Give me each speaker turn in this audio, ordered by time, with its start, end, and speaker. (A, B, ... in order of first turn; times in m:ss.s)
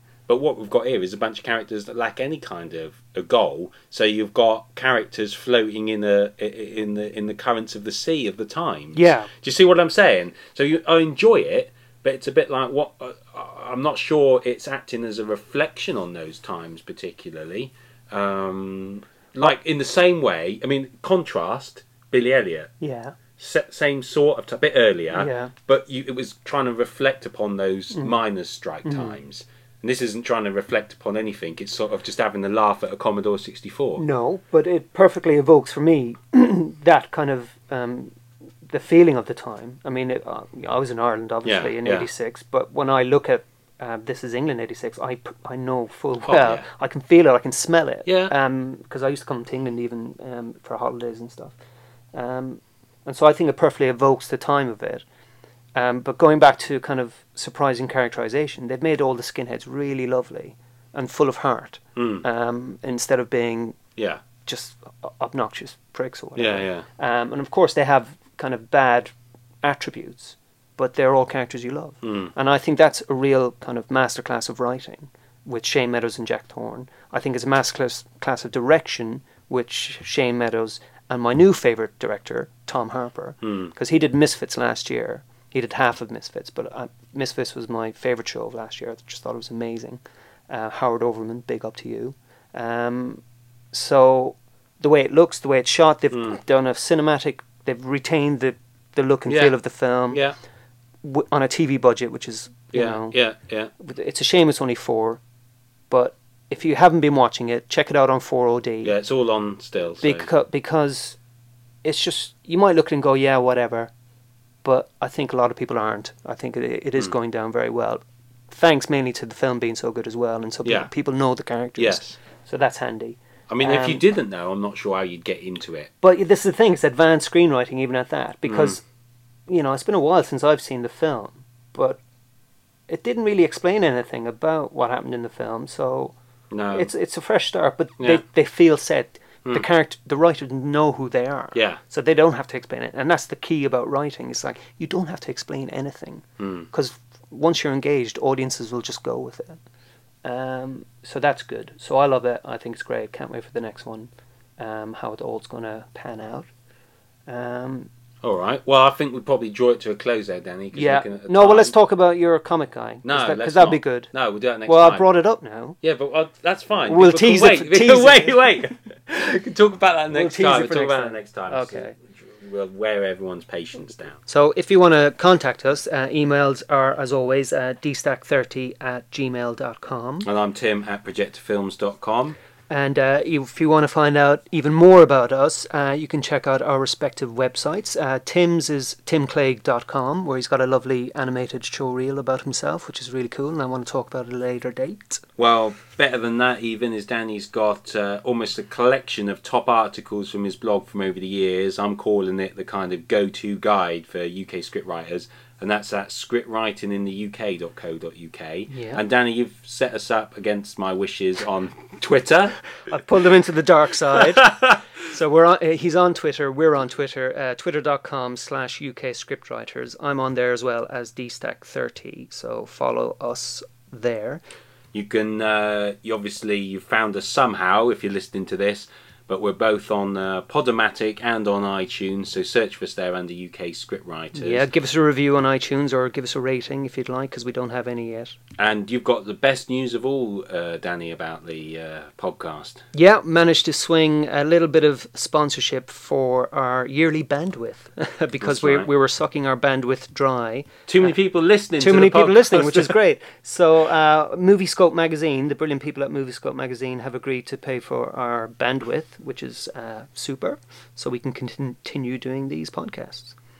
0:00.3-0:22.7 A
0:08.9-0:09.3 B
0:22.8-0:23.2 B
0:23.4-0:34.0 A
0:25.1-0:25.5 B
0:28.8-0:29.2 B
0:34.0-0:51.5 B
0:41.4-0:42.1 A
0:46.2-0:46.6 A
0:48.0-0:48.3 A
0:52.1-0:55.0 B
0:55.7-1:03.8 B
1:02.0-1:02.2 A
1:04.0-1:04.2 A
1:04.4-1:40.2 B
1:06.4-1:06.9 A
1:12.0-1:12.3 A
1:23.4-1:23.7 A
1:36.1-1:36.4 A
1:39.3-1:39.5 A
1:40.1-1:40.4 A
1:41.0-1:43.2 B
1:42.7-1:43.7 A
1:43.8-1:45.2 B
1:45.9-1:48.9 B
1:48.8-1:50.3 A
1:50.0-1:51.2 B
1:51.8-1:53.9 B
1:54.6-2:04.0 B
2:00.6-2:00.9 A
2:01.8-2:02.2 A
2:03.5-2:05.9 A
2:06.0-2:08.8 B
2:08.4-2:08.8 A
2:09.5-2:12.0 B
2:12.9-2:16.1 B
2:16.5-2:16.9 A
2:16.7-2:29.6 B
2:21.5-2:21.8 A
2:26.4-2:26.7 A
2:30.2-2:36.5 B
2:37.3-2:37.9 B
2:38.2-2:41.7 A
2:40.7-2:44.1 B
2:43.0-2:45.0 A
2:44.7-2:45.8 B
2:45.8-2:54.2 A
2:46.9-2:48.4 B
2:50.1-2:51.9 B
2:54.3-3:00.3 B
3:00.2-3:02.4 A
3:02.7-3:15.2 B
3:15.4-3:32.6 A
3:28.7-3:29.0 B
3:32.9-3:44.4 B
3:34.4-3:34.8 A
3:44.9-3:54.7 A
3:54.3-3:58.4 B
3:58.6-4:02.8 A
4:02.9-4:11.1 B
4:08.4-4:08.9 A
4:10.9-4:12.9 A
4:11.8-4:23.3 B